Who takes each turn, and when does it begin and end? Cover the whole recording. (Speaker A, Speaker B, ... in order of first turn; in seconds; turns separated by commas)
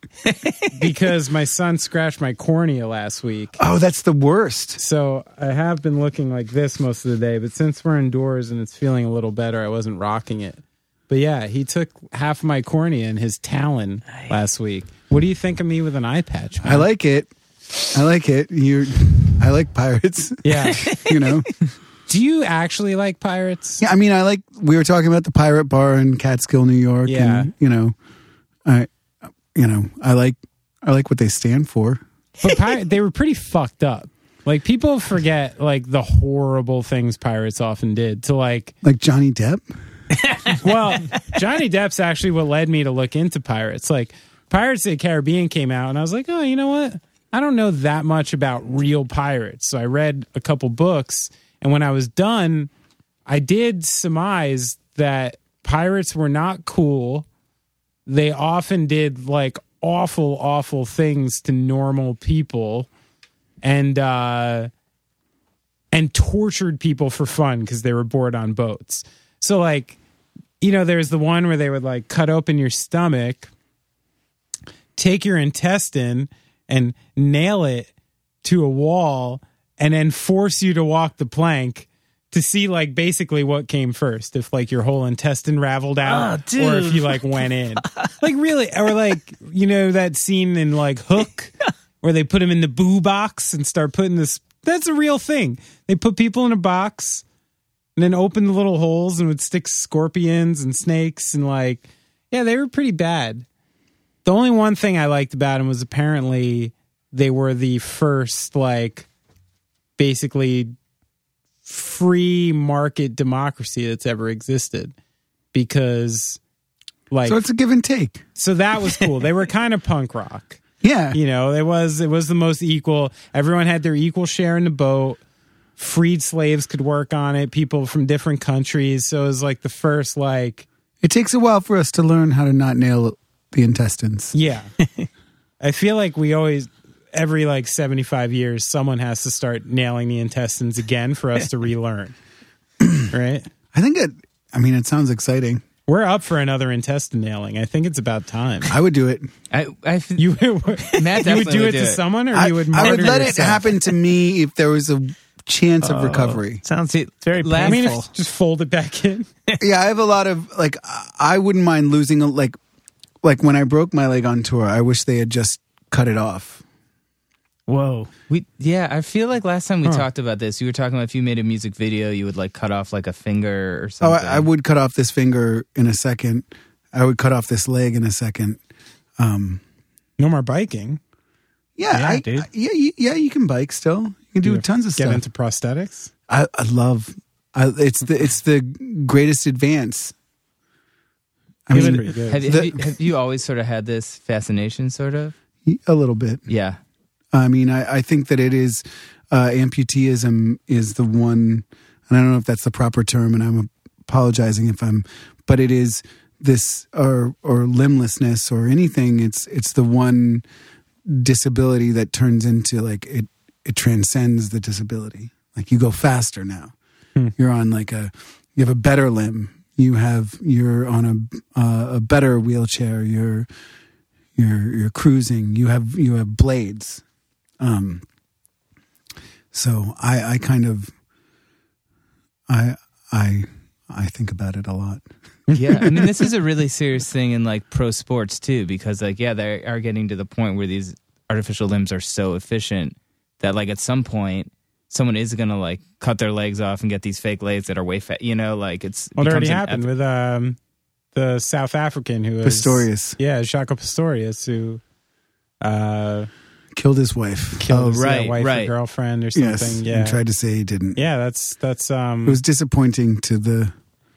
Speaker A: 0.2-0.9, Speaker B: 0.7-3.6, Speaker C: 3.6-4.8, Speaker B: 4.8-16.9, Speaker C: 16.6-17.3, Speaker C: 17.8-21.5, Speaker B: 20.4-20.9, Speaker A: 20.7-21.4, Speaker B: 22.1-23.8, Speaker C: 23.8-27.9, Speaker B: 27.1-27.5, Speaker C: 29.5-32.0, Speaker B: 32.4-38.7, Speaker C: 38.8-39.6, Speaker A: 40.2-40.6, Speaker B: 40.5-52.7, Speaker B: 53.3-57.2, Speaker B: 58.1-62.9, Speaker B: 63.6-64.7, Speaker B: 65.9-70.0, Speaker B: 70.6-73.5, Speaker B: 75.0-77.9, Speaker B: 78.4-97.2, Speaker A: 86.0-88.1, Speaker B: 98.0-103.5, Speaker B: 104.2-109.1, Speaker B: 110.0-110.8, Speaker B: 111.7-114.9, Speaker B: 115.5-116.4, Speaker B: 117.1-117.4, Speaker C: 117.2-118.2, Speaker B: 118.4-120.6, Speaker C: 120.8-121.2, Speaker B: 121.1-125.2, Speaker B: 125.8-130.7, Speaker C: 131.0-134.3, Speaker B: 134.3-134.7, Speaker B: 135.6-142.1, Speaker C: 142.8-143.1, Speaker B: 143.1-143.5, Speaker C: 143.7-145.6, Speaker B: 145.9-148.8, Speaker C: 148.7-149.3, Speaker D: 149.5-150.3, Speaker B: 150.2-153.7, Speaker D: 150.9-152.0, Speaker C: 152.3-156.6, Speaker A: 155.8-158.1, Speaker D: 156.9-157.9, Speaker B: 157.6-159.3, Speaker C: 159.6-162.6, Speaker C: 163.2-166.6, Speaker A: 167.7-168.1, Speaker D: 168.3-174.5, Speaker C: 174.0-178.6, Speaker C: 179.2-179.6, Speaker B: 180.2-181.0, Speaker C: 181.8-185.2, Speaker A: 181.9-182.5, Speaker B: 184.4-186.1, Speaker C: 186.3-190.1, Speaker C: 191.7-192.9, Speaker B: 191.7-192.4, Speaker D: 191.8-195.3, Speaker C: 195.6-196.4, Speaker D: 196.5-196.8, Speaker C: 197.3-210.4, Speaker C: 211.1-216.7, Speaker C: 217.4-223.5, Speaker C: 224.4-227.0, Speaker C: 227.6-228.0, Speaker C: 229.5-230.9, Speaker C: 232.5-235.1, Speaker B: 235.5-235.9, Speaker D: 235.5-249.9, Speaker B: 249.2-250.6, Speaker B: 251.1-254.8, Speaker C: 252.4-253.2, Speaker B: 255.6-256.3, Speaker C: 256.8-258.0, Speaker B: 257.6-260.2, Speaker D: 257.8-258.7, Speaker C: 259.3-261.0, Speaker B: 261.0-262.4, Speaker C: 262.2-263.7